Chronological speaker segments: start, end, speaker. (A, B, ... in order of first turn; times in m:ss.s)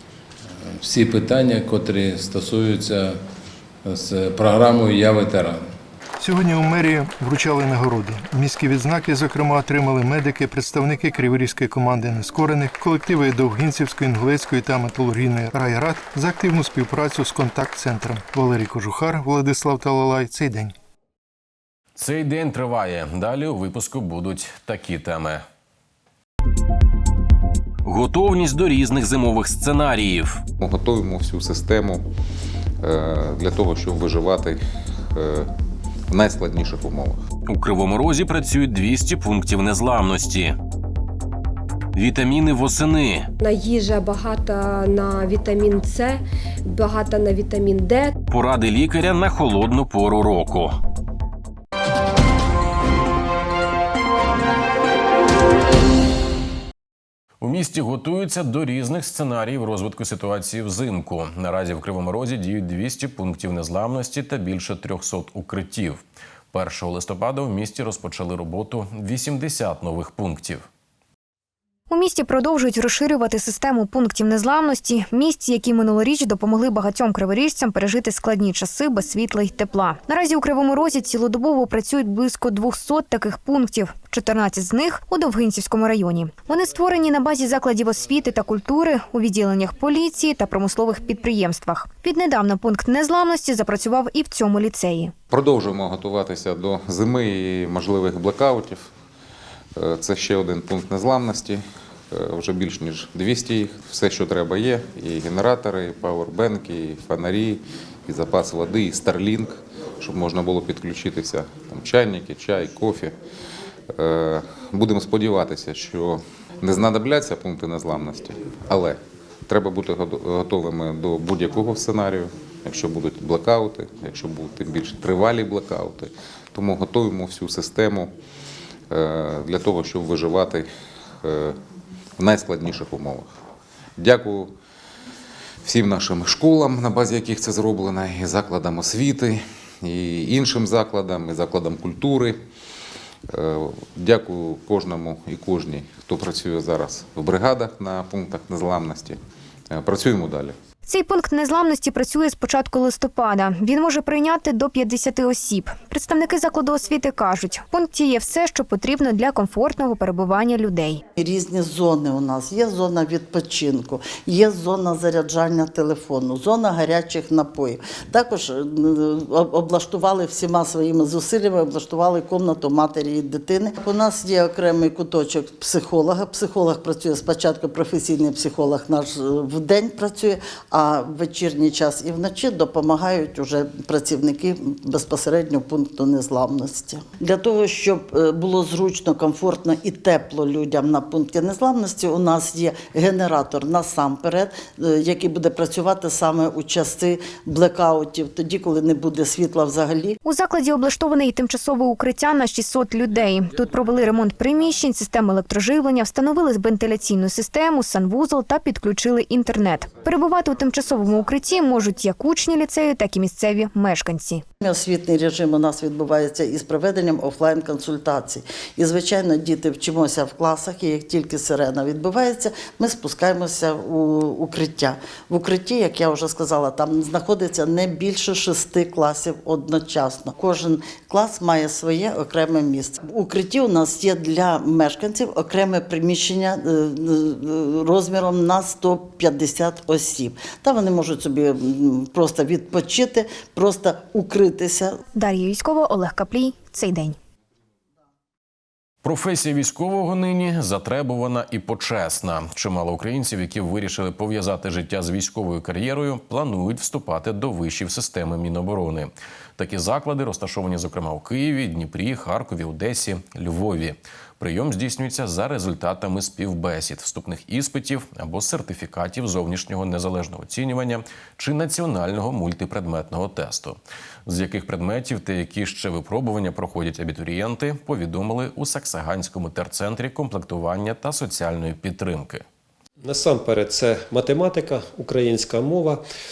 0:00.6-0:03.2 A
0:03.8-0:05.6 A
0:06.2-0:20.7 B
0:22.0-0:25.4 C
0:27.8-0:30.4 C
0:30.6-0:32.0 D
0:32.8-0:35.5 D
0:36.1-0:37.2 D
0:37.5-0:40.6 C
0:41.9-0:43.3 C
0:43.4-0:48.1 E
0:48.3-0:50.8 C
0:57.4-1:10.7 C
1:11.9-1:35.1 F
1:35.3-1:38.9 D
1:39.8-1:53.2 D
1:53.9-2:08.1 D
2:08.9-2:10.7 D
2:11.2-2:11.6 D
2:12.2-2:13.2 D
2:14.0-2:14.5 D
2:15.6-2:22.4 D
2:23.3-2:29.2 D
2:29.7-2:30.6 D
2:30.8-2:41.0 F
2:41.2-3:20.2 G
3:20.2-3:34.4 F
3:34.6-4:05.0 G
4:05.2-4:07.2 F
4:09.0-4:42.4 C
4:43.0-4:46.0 H